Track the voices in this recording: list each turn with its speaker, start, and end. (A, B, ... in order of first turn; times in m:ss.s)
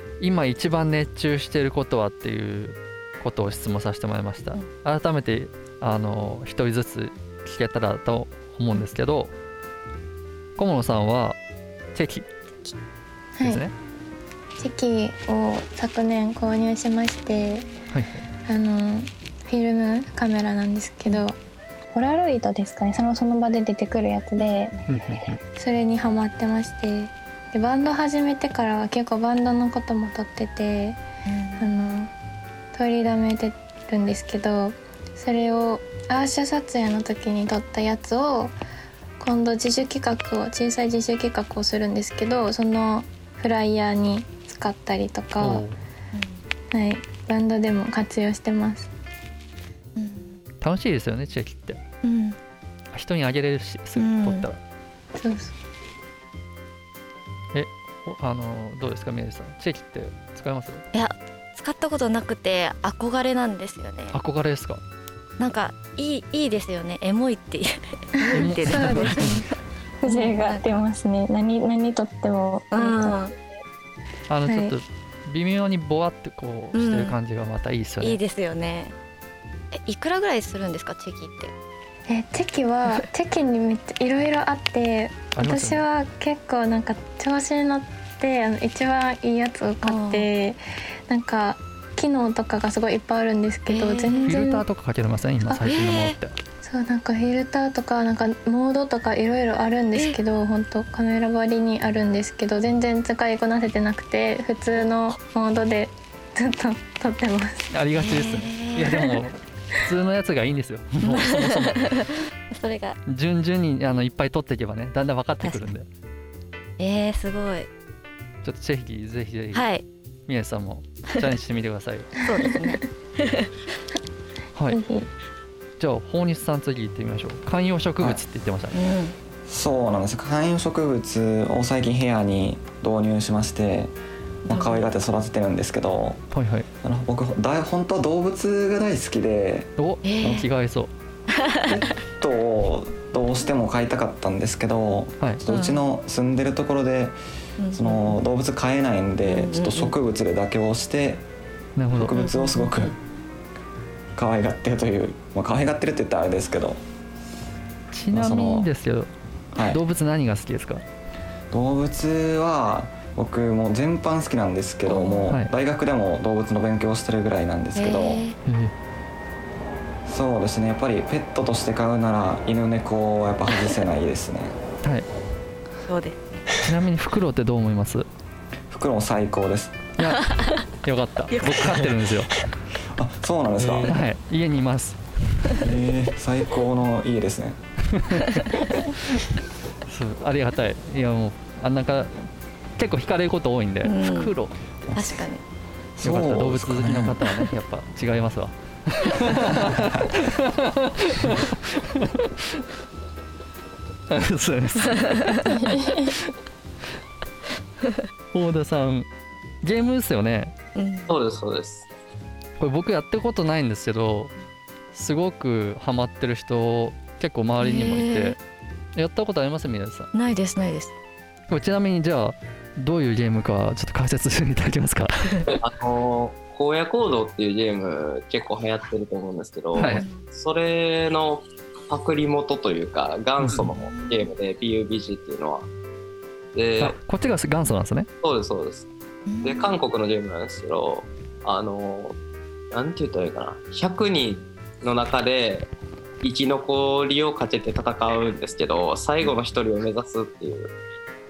0:00.2-0:09.3 A
0:10.6-0:11.4 A
0:12.0-0:12.3 A
0:13.4-0:13.6 B
0:13.4-0:13.7 A
0:14.6-0:17.7 B
0:17.9-0:18.2 A
0:18.5-0:21.4 B
0:21.9-0:24.8 B
0:24.9-0:25.4 A
0:25.3-0:31.0 B
0:31.3-0:31.7 C
0:31.6-0:32.1 B
0:32.7-0:38.5 B
0:39.2-0:45.6 B
0:45.4-0:45.8 A
0:46.1-0:46.4 C
0:46.7-0:48.9 B
0:50.0-0:50.4 C
0:50.6-0:51.8 A
0:52.0-0:52.4 C
0:52.9-0:54.6 A
0:54.0-0:54.5 C
0:55.2-0:55.5 B
0:57.5-1:00.8 A
1:00.9-1:04.2 C
1:04.1-1:04.8 A
1:05.4-1:09.4 C
1:08.2-1:09.5 B
1:08.3-1:09.5 A
1:10.0-1:13.2 B
1:10.1-1:10.8 C
1:12.7-1:13.5 C
1:14.3-1:18.2 A
1:14.5-1:14.8 B
1:16.7-1:17.2 C
1:18.0-1:19.0 C
1:19.7-1:21.5 C
1:22.1-1:34.6 B
1:25.4-1:25.8 A
1:29.8-1:30.3 C
1:33.7-1:34.4 C
1:34.2-1:36.3 A
1:35.6-1:36.2 C
1:36.6-1:47.6 B
1:47.7-1:52.0 A
1:48.0-1:49.2 C
1:51.0-1:53.0 C
1:53.1-1:55.9 A
1:55.4-1:55.7 C
1:56.8-1:57.7 C
1:58.4-1:59.7 A
1:59.5-1:59.8 C
2:00.3-2:02.2 A
2:02.2-2:03.5 C
2:04.7-2:05.1 B
2:05.8-2:08.8 A
2:08.7-2:09.2 C
2:09.5-2:13.9 D
2:14.4-2:16.2 D
2:14.5-2:14.9 C
2:16.3-2:16.7 A
2:16.8-2:19.7 D
2:19.8-2:20.9 A
2:20.0-2:20.5 C
2:21.4-2:21.7 C
2:21.6-2:27.2 D
2:25.5-2:25.8 C
2:27.6-2:28.2 C
2:27.7-2:31.2 D
2:29.2-2:30.0 C
2:31.8-2:32.2 A
2:31.9-2:33.0 D
2:32.2-2:32.9 C
2:34.2-2:36.8 D
2:37.9-2:40.8 A
2:38.1-2:38.7 D
2:39.6-2:39.8 D
2:41.5-2:48.2 D
2:44.9-2:45.3 C
2:47.8-2:48.4 C
2:48.4-2:48.7 A
2:50.1-2:54.6 D
2:55.9-2:56.4 C
2:56.6-2:58.1 A
2:58.7-2:59.8 D
3:00.0-3:02.3 A
3:00.0-3:00.6 C
3:01.3-3:01.8 C
3:02.9-3:04.0 D
3:03.8-3:05.0 A
3:05.6-3:07.6 D
3:07.9-3:09.2 A
3:09.9-3:14.5 A
3:13.8-3:14.3 C
3:14.9-3:15.4 C
3:16.0-3:17.3 D
3:16.0-3:22.6 A
3:19.5-3:20.1 D
3:24.1-3:26.1 A
3:24.8-3:25.7 C
3:25.6-3:26.1 B
3:28.3-3:29.1 A
3:29.6-3:30.5 A
3:30.8-3:31.1 C
3:31.1-3:31.9 E
3:32.6-3:34.3 A
3:34.9-3:38.4 A
3:37.6-3:38.4 C
3:39.0-3:40.1 A
3:40.1-3:41.0 C
3:41.5-3:45.4 A
3:45.5-3:55.7 E
3:49.7-3:50.0 A
3:49.8-3:50.2 C
3:53.4-3:53.7 A
3:53.9-3:54.2 C
3:56.5-3:57.0 E
3:56.8-3:58.1 A
3:58.2-3:58.9 E
3:59.3-3:59.8 C
3:59.4-4:02.2 E
4:02.7-4:05.7 E
4:06.2-4:10.7 E